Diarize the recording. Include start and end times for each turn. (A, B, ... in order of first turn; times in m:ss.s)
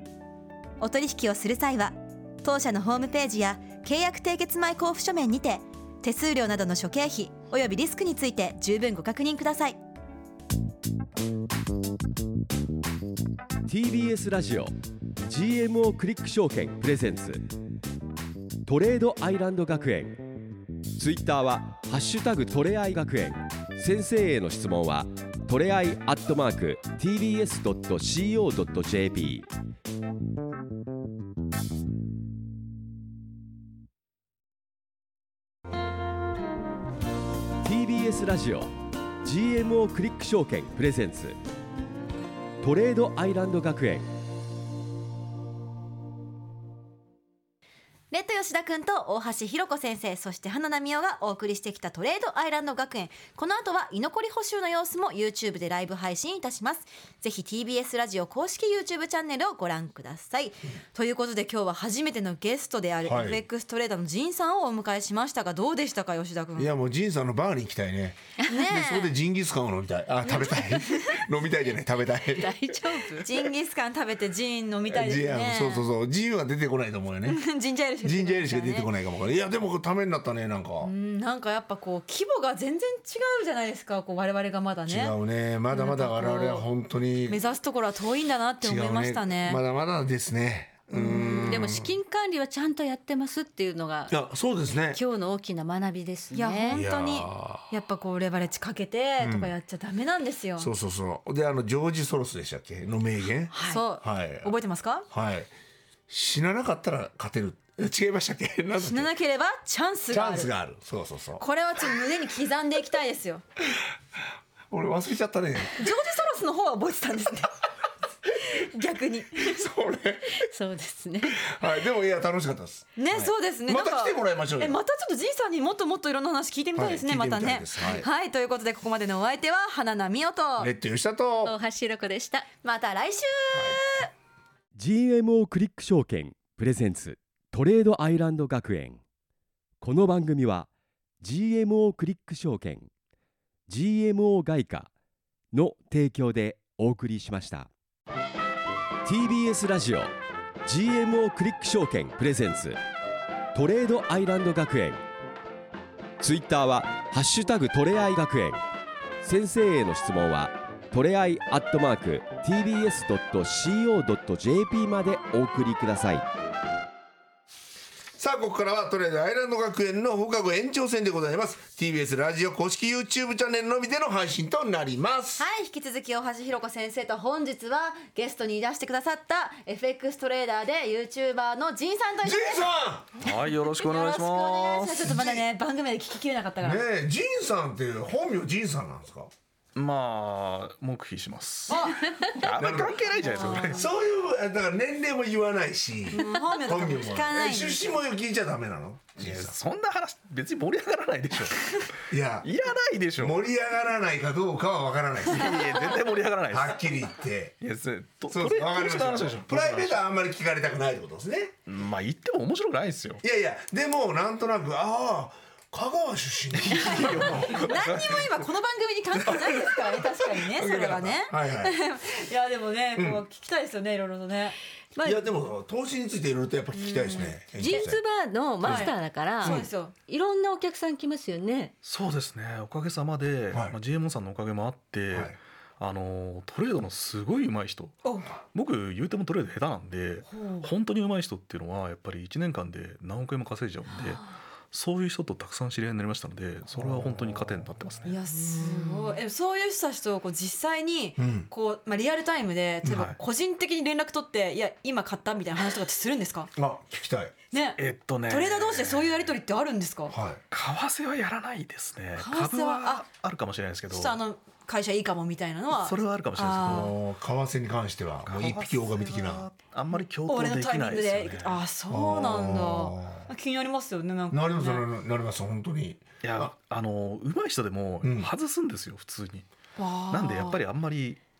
0:00.8-0:09.8 A
0:13.7-0:14.7 B
0:15.2-0:17.4 B
0:18.6-0:20.2 B
0:21.0-0:29.5 B
0:37.6-0:38.7 B
0:39.2-0:41.4 B
0:42.6-0:44.1 B
0:48.1-1:06.7 A
1:03.0-1:03.4 C
1:06.6-1:12.6 C
1:08.5-1:09.1 A
1:10.3-1:10.8 D
1:12.3-1:13.4 D
1:13.2-1:15.8 A
1:14.9-1:17.4 C
1:17.2-1:18.9 A
1:18.0-1:20.9 C
1:20.8-1:25.2 A
1:24.9-1:27.4 C
1:25.7-1:26.7 A
1:27.2-1:29.6 A
1:28.6-1:31.9 C
1:31.0-1:31.6 A
1:31.3-1:34.1 D
1:34.1-1:35.0 C
1:34.9-1:36.8 D
1:36.3-1:40.7 A
1:36.7-1:37.7 C
1:39.2-1:39.5 C
1:40.6-1:44.5 C
1:43.5-1:43.8 D
1:43.6-1:45.0 A
1:45.1-1:45.5 C
1:46.1-1:49.1 C
1:48.8-1:50.5 A
1:50.1-1:51.4 C
1:51.4-1:53.4 A
1:54.7-1:55.9 C
1:55.8-1:57.6 A
1:58.3-1:59.6 A
1:59.4-2:00.5 C
2:00.3-2:01.4 D
2:01.4-2:04.8 C
2:03.0-2:10.7 A
2:06.7-2:08.0 C
2:10.6-2:11.5 C
2:11.4-2:12.5 D
2:12.6-2:14.1 A
2:13.5-2:13.8 C
2:14.7-2:19.0 B
2:19.8-2:20.7 B
2:21.2-2:22.9 B
2:23.7-2:24.9 B
2:25.5-2:27.7 B
2:29.0-2:30.1 B
2:30.6-2:32.8 B
2:33.5-2:35.0 B
2:36.2-2:38.6 B
2:39.2-2:46.2 B
2:48.2-2:55.5 C
2:55.4-3:02.7 A
3:02.2-3:03.1 C
3:03.2-3:05.1 E
3:03.6-3:06.8 A
3:05.0-3:05.4 C
3:06.6-3:09.3 C
3:09.7-3:13.9 E
3:11.7-3:12.2 A
3:12.0-3:12.4 D
3:12.5-3:19.5 C
3:13.2-3:13.9 A
3:16.1-3:17.9 A
3:19.2-3:23.4 E
3:22.1-3:22.5 C
3:23.2-3:25.8 C
3:25.3-3:26.8 E
3:26.5-3:27.6 C
3:27.6-3:30.0 E
3:28.3-3:31.5 C
3:31.7-3:33.2 E
3:33.2-3:37.6 C
3:36.5-3:38.2 E
3:36.9-3:44.6 A
3:39.3-3:41.8 C
3:43.0-3:43.2 C
3:44.9-3:45.2 D
3:45.0-3:48.0 C
3:46.7-3:47.9 A
3:47.6-3:51.7 D
3:48.6-3:48.9 C
3:48.6-3:49.9 A
3:51.8-3:58.0 E
3:53.5-3:53.8 C
3:58.0-3:58.3 A
3:58.5-4:08.2 E
4:00.3-4:00.7 A
4:06.7-4:07.7 C
4:08.0-4:16.5 A
4:08.3-4:09.2 D
4:11.2-4:11.5 C
4:12.8-4:13.2 E
4:16.6-4:17.3 C
4:17.5-4:20.1 A
4:17.8-4:19.3 E
4:20.1-4:20.4 C
4:20.5-4:24.2 E
4:22.2-4:23.0 A
4:23.9-4:26.9 A
4:25.7-4:26.9 E
4:26.6-4:29.4 C
4:28.2-4:31.6 E
4:30.2-4:34.8 A
4:31.9-4:33.3 C
4:34.3-4:36.5 C
4:36.2-4:39.4 E
4:38.0-4:38.3 C
4:39.8-4:40.6 A
4:40.1-4:41.2 E